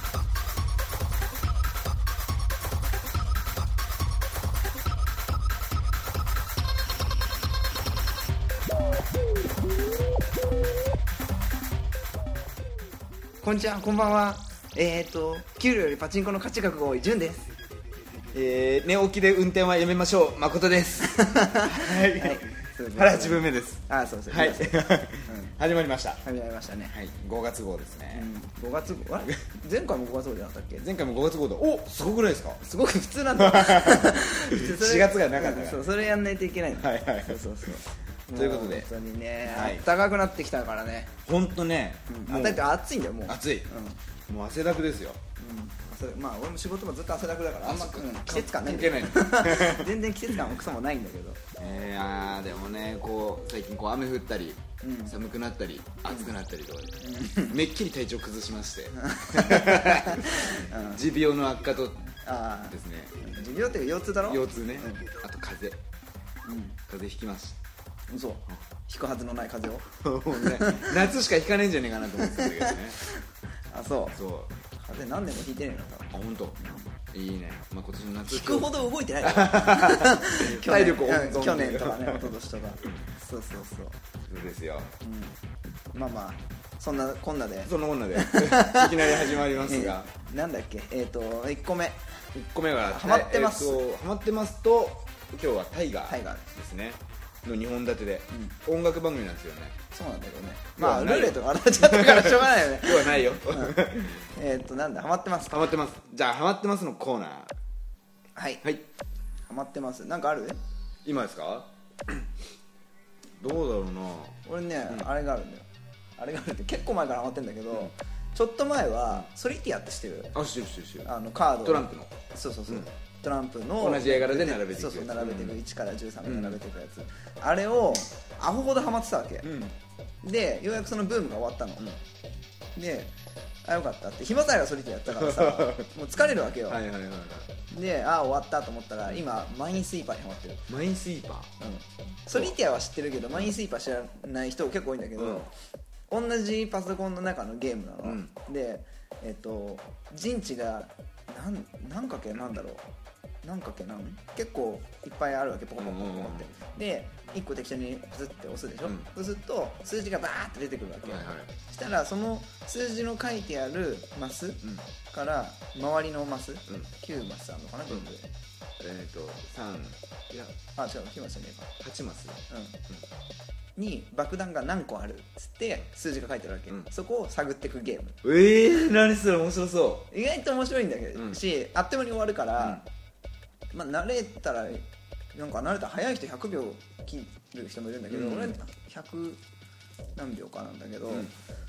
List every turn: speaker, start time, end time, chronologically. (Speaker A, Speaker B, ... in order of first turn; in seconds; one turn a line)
Speaker A: 13.4-17.5
Speaker B: 18.3-26.2
Speaker A: 21.1-25.6
Speaker A: 26.2-26.9
Speaker B: 26.9-28.3
Speaker A: 28.1-30.9
Speaker B: 30.8-32.6
Speaker A: 32.6-41.2
Speaker B: 33.3-35.9
Speaker B: 36.8-37.8
Speaker B: 38.3-38.9
Speaker B: 39.4-39.9
Speaker B: 41.2-42.7
Speaker A: 42.1-44.0
Speaker B: 43.2-43.7
Speaker B: 44.3-45.2
Speaker A: 45.4-51.4
Speaker B: 47.6-49.9
Speaker B: 51.6-62.0
Speaker A: 54.8-55.1
Speaker A: 57.0-57.6
Speaker A: 59.0-61.0
Speaker A: 62.1-65.1
Speaker B: 62.6-63.3
Speaker B: 64.2-65.8
Speaker A: 66.5-66.8
Speaker B: 66.9-67.6
Speaker A: 68.1-71.0
Speaker B: 70.0-73.0
Speaker A: 72.2-73.2
Speaker A: 73.7-74.2
Speaker B: 74.1-74.5
Speaker A: 74.8-76.9
Speaker B: 76.1-82.3
Speaker A: 78.3-84.0
Speaker B: 84.3-84.9
Speaker A: 85.0-85.4
Speaker A: 85.9-92.0
Speaker B: 87.7-90.1
Speaker B: 92.3-99.8
Speaker A: 92.8-93.8
Speaker A: 96.1-96.5
Speaker A: 99.9-105.7
Speaker B: 100.8-104.3
Speaker B: 105.5-107.5
Speaker A: 108.4-108.7
Speaker A: 109.5-110.6
Speaker B: 111.0-112.3
Speaker B: 113.4-115.1
Speaker A: 114.5-115.7
Speaker A: 116.2-120.3
Speaker B: 120.3-121.1
Speaker A: 121.0-129.5
Speaker B: 121.6-122.1
Speaker B: 123.8-125.6
Speaker B: 126.2-126.6
Speaker B: 129.4-129.8
Speaker A: 130.2-131.9
Speaker A: 132.8-133.1
Speaker A: 133.7-136.8
Speaker B: 135.1-135.9
Speaker B: 136.7-137.5
Speaker A: 137.7-140.7
Speaker B: 140.7-141.6
Speaker A: 141.6-145.5
Speaker B: 145.2-145.5
Speaker A: 146.1-152.8
Speaker B: 148.0-148.3
Speaker A: 153.4-168.3
Speaker B: 155.8-156.5
Speaker B: 161.1-161.5
Speaker B: 168.8-170.5
Speaker A: 170.6-171.7
Speaker B: 171.8-173.0
Speaker A: 172.5-172.8
Speaker A: 173.8-178.2
Speaker B: 178.2-180.1
Speaker A: 180.1-182.8
Speaker B: 182.6-182.8
Speaker A: 183.7-189.4
Speaker B: 188.1-188.5
Speaker A: 190.2-191.3
Speaker B: 191.1-191.3